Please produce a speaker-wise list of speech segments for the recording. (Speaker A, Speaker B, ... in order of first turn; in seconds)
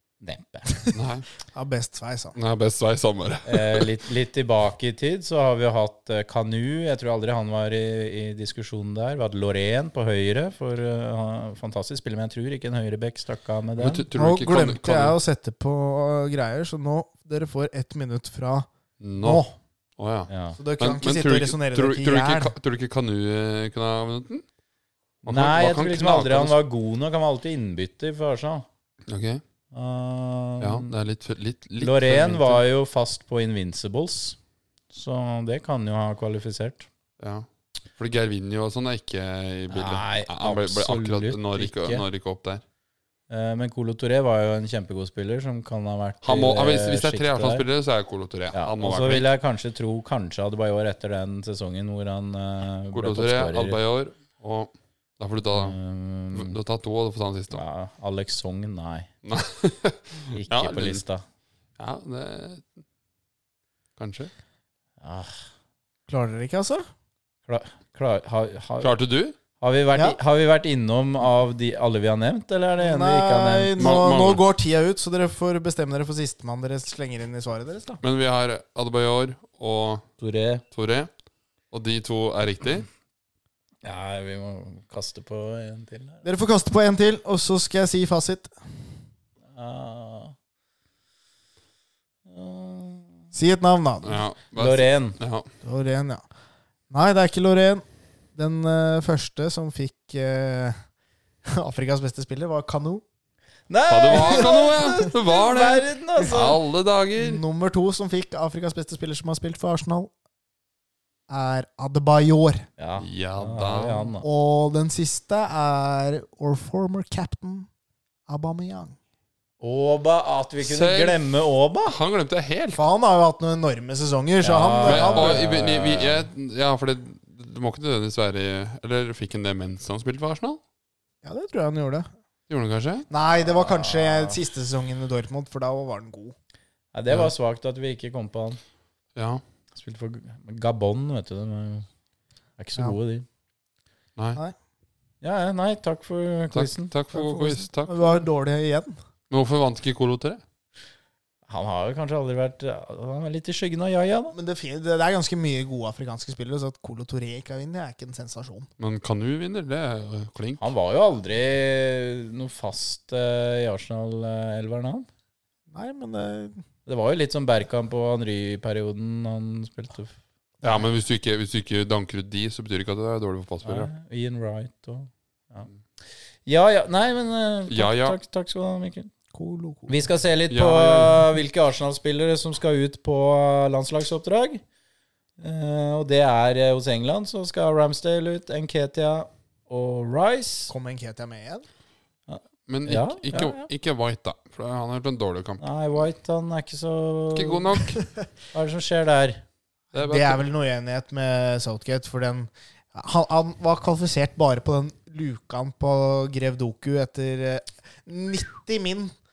Speaker A: 0.2-0.7, 3.5-14.1, 20.3-20.6, 25.3-28.7, 29.7-30.9, 31.8-34.4, 34.9-36.9, 39.7-42.0, 43.3-47.6, 48.5-53.8, 55.5-56.6, 57.5-59.1, 60.3-61.2, 65.0-65.4, 67.5-68.9, 69.6-73.9, 80.2-80.6, 83.8-86.2, 89.5-90.3, 92.3-93.3, 94.6-95.2, 103.7-106.6, 112.8-114.3, 119.6-122.0, 124.4-126.3, 133.4-134.4, 136.9-138.6, 139.7-141.9, 142.6-143.3, 145.2-146.9, 151.5-154.3, 160.6-165.1, 166.9-170.2, 173.7-175.7, 176.5-179.1, 179.9-184.6, 185.4-190.7, 192.3-193.7, 195.6-197.8, 198.5-199.4
Speaker B: 0.9-1.3, 2.4-3.9, 13.8-15.2, 19.0-19.4, 20.0-24.4, 25.2-26.6, 29.1-29.4, 30.6-32.6, 37.2-42.6, 46.2-49.3, 52.9-55.8, 56.3-57.6, 59.2-61.0, 61.8-62.7, 64.0-64.3, 68.8-69.3, 73.8-74.4, 78.0-80.1, 80.7-81.1, 81.7-82.9, 94.0-95.5, 103.9-107.4, 113.0-114.1, 120.6-121.2, 121.8-122.8, 124.8-130.6, 132.5-133.1, 139.2-139.4, 146.5-148.2, 149.3-150.4, 158.8-160.7, 170.6-173.9, 177.7-178.2, 180.5-181.3, 192.7-195.6, 197.3-198.0, 199.9-200.4
Speaker C: 1.5-2.4, 14.2-18.7, 19.2-19.5, 20.6-22.5, 66.1-66.8, 72.8-78.0, 86.2-88.5, 93.3-94.2, 95.6-96.2, 96.9-97.8, 98.4-100.8, 101.5-103.0, 104.1-104.5, 107.2-110.1, 111.3-112.7, 114.2-117.7, 118.3-119.0, 122.8-125.4, 131.2-132.1, 133.1-136.3, 147.1-149.0, 154.3-158.7, 165.7-166.6, 179.3-180.0, 190.7-191.7, 199.9-209.1